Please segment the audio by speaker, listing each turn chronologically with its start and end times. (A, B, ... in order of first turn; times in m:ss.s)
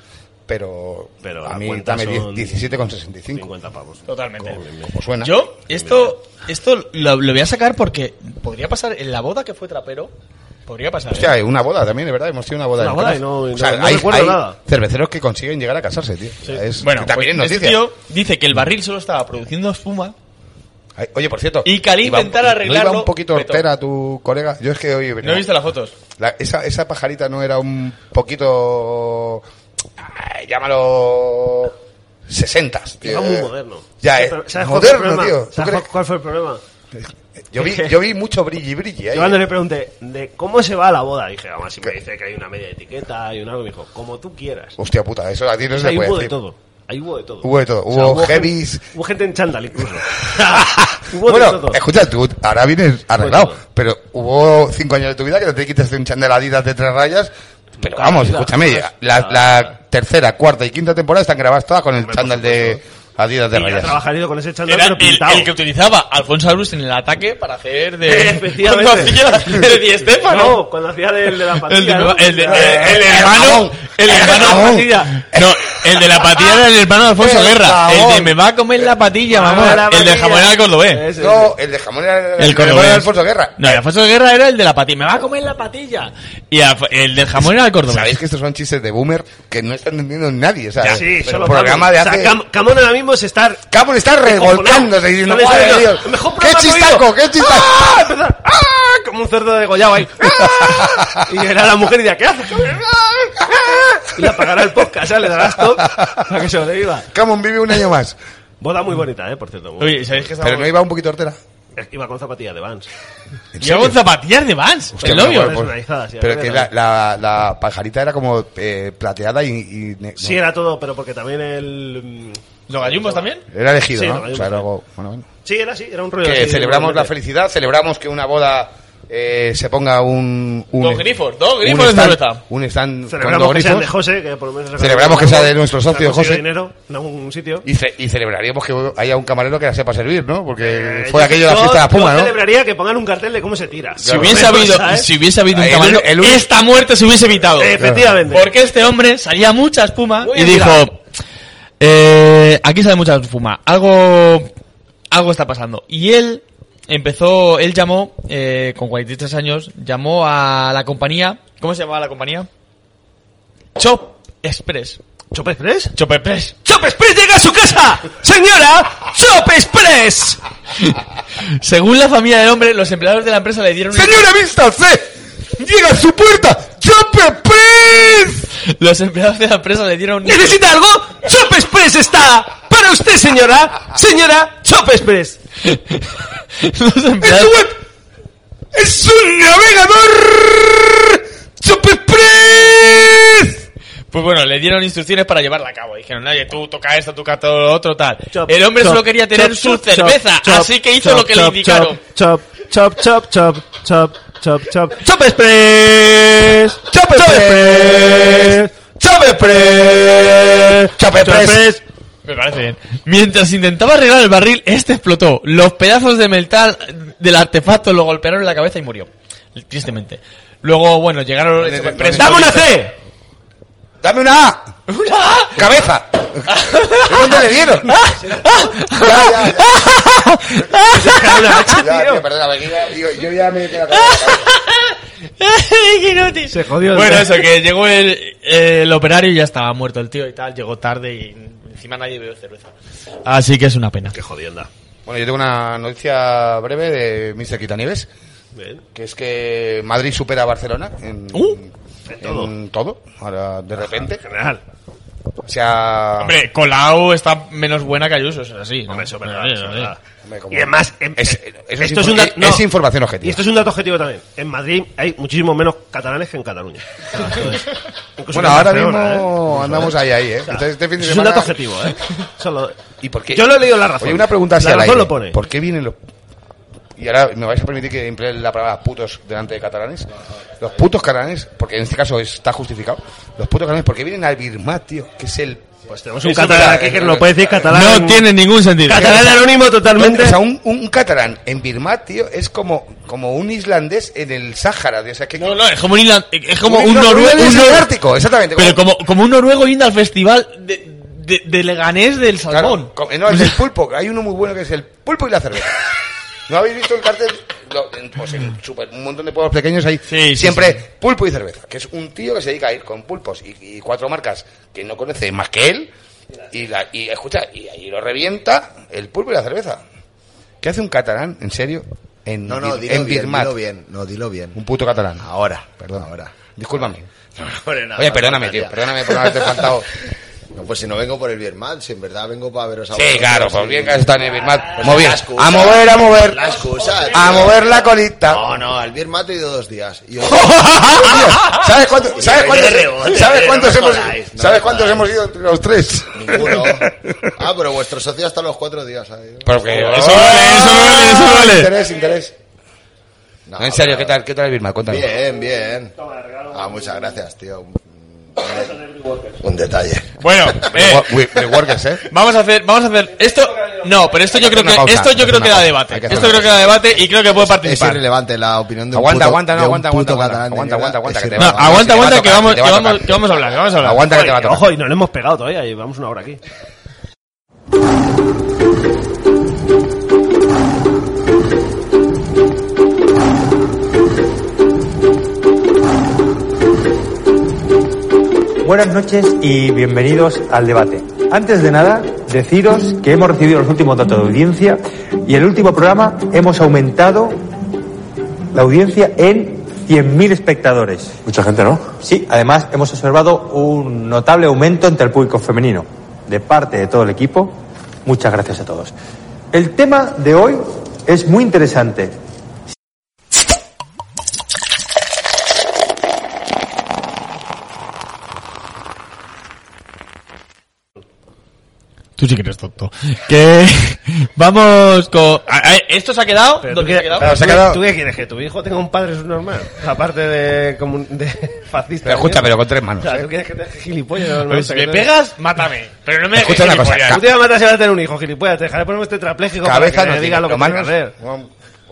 0:00.5-0:03.5 A
0:01.2-0:02.8 B
0:03.3-0:04.9 B
0:04.1-0:04.6 C
0:04.9-0:05.4 A
0:05.2-0:10.1 C
0:05.7-0:06.1 B
0:10.7-0:11.3 C
0:11.1-0:17.8 A
0:12.8-0:14.6 B
0:16.4-0:20.1 C
0:21.0-0:25.5 A
0:21.6-0:23.6 C
0:25.2-0:25.9 C
0:26.2-0:29.4 A
0:30.0-0:31.8 A
0:32.3-0:33.5 A
0:33.0-0:36.6 B
0:34.0-0:35.9 A
0:36.9-0:39.4 A
0:37.6-0:37.9 B
0:39.1-0:44.8 B
0:44.8-0:46.4 A
0:45.7-0:51.8 B
0:47.4-0:48.8 A
0:50.4-1:04.0 A
0:53.2-0:53.6 B
0:57.8-0:59.7 B
1:02.0-1:02.8 B
1:03.5-1:05.5 B
1:04.7-1:10.6 C
1:08.0-1:13.1 B
1:11.6-1:21.0 C
1:12.5-1:16.2 A
1:14.2-1:14.9 B
1:17.2-1:18.4 A
1:19.3-1:21.5 B
1:19.4-1:19.8 A
1:21.2-1:23.8 A
1:22.4-1:28.1 C
1:27.4-1:32.4 A
1:30.8-1:33.6 B
1:33.7-1:38.0 A
1:34.2-1:47.1 B
1:40.4-1:41.3 A
1:45.8-1:46.2 A
1:47.1-1:48.2 A
1:48.6-1:50.3 B
1:49.8-1:50.7 C
1:50.4-1:51.4 A
1:51.7-1:52.9 B
1:53.5-1:54.0 A
1:53.6-1:55.6 C
1:54.9-2:00.4 A
1:55.0-1:56.7 B
2:00.2-2:03.3 B
2:02.7-2:03.4 C
2:03.5-2:05.3 A
2:03.9-2:04.7 B
2:05.4-2:07.1 B
2:06.2-2:13.9 A
2:10.8-2:12.4 C
2:13.1-2:17.6 B
2:14.8-2:16.4 A
2:17.6-2:22.4 A
2:20.6-2:25.1 B
2:24.0-2:24.8 A
2:24.0-2:27.8 C
2:25.5-2:26.5 A
2:27.6-2:28.5 B
2:27.8-2:28.2 A
2:28.3-2:31.0 C
2:30.2-2:30.9 B
2:31.8-2:34.5 C
2:35.1-2:42.5 C
2:43.8-2:45.0 C
2:45.3-2:45.9 B
2:45.9-2:46.6 C
2:46.6-2:50.4 B
2:50.8-2:54.3 C
2:53.9-2:58.4 A
2:58.6-3:00.6 C
3:00.2-3:05.4 B
3:05.6-3:07.7 C
3:08.8-3:11.0 B
3:08.8-3:10.3 A
3:11.6-3:13.5 B
3:11.6-3:12.9 A
3:14.1-3:22.0 C
3:18.3-3:31.8 B
3:26.9-3:31.6 A
3:32.2-3:42.7 C
3:41.6-3:42.8 A
3:42.1-3:42.9 B
3:44.0-3:44.7 A
3:44.9-3:45.6 C
3:45.5-3:48.0 A
3:46.5-3:51.8 C
3:48.9-3:49.7 A
3:50.8-3:52.2 B
3:51.7-3:54.5 A
3:53.9-4:02.7 C
3:56.5-3:57.5 B
4:03.2-4:04.2 C
4:04.1-4:04.7 B
4:05.0-4:08.1 A
4:08.5-4:08.8 B
4:08.9-4:14.2 A
4:11.3-4:11.6 C
4:12.1-4:12.5 B
4:13.8-4:14.6 B
4:15.4-4:16.4 A
4:16.2-4:19.9 C
4:18.9-4:20.0 B
4:20.2-4:23.4 A
4:20.5-4:22.6 B
4:23.2-4:32.8 B
4:28.3-4:31.6 A
4:33.0-4:36.0 A
4:33.3-4:35.4 B
4:37.0-4:40.1 A
4:40.6-4:45.6 A
4:45.9-4:48.3 B
4:46.2-4:47.6 A
4:47.7-4:49.4 C
4:48.8-4:50.4 B
4:49.0-4:49.3 A
4:49.9-4:55.6 A
4:55.4-4:57.9 C
4:56.6-4:58.8 A
4:58.6-5:03.6 C
5:02.5-5:05.9 A
5:06.5-5:15.9 A
5:10.1-5:10.8 C
5:16.5-5:19.8 A
5:20.6-5:23.6 A
5:22.4-5:24.6 D
5:24.5-5:25.3 A
5:25.2-5:26.3 D
5:25.8-5:27.1 A
5:27.4-5:29.7 D
5:28.0-5:29.9 A
5:30.5-5:37.6 D
5:32.9-5:38.4 A
5:38.3-5:41.5 D
5:40.5-5:47.3 A
5:42.1-5:45.1 D
5:46.1-5:49.7 D
5:49.4-5:52.3 A
5:49.7-5:51.7 C
5:53.5-5:54.1 D
5:53.6-5:55.1 A
5:54.9-5:55.9 D
5:56.0-5:57.1 B
5:56.5-5:58.8 D
5:59.3-6:00.6 D
6:00.2-6:01.1 C
6:00.6-6:02.1 A
6:02.0-6:08.0 C
6:04.3-6:06.6 A
6:07.4-6:11.8 D
6:08.9-6:13.2 A
6:11.4-6:14.2 C
6:13.8-6:14.7 A
6:14.1-6:16.4 B
6:28.6-6:37.4 E
6:38.5-6:48.9 E
6:49.5-6:52.2 E
7:02.2-7:07.4 C
7:06.6-7:15.1 B
7:07.2-7:07.8 A
7:12.0-7:13.3 A
7:14.5-7:17.2 C
7:16.3-7:17.2 A
7:17.1-7:21.1 B
7:19.6-7:21.5 A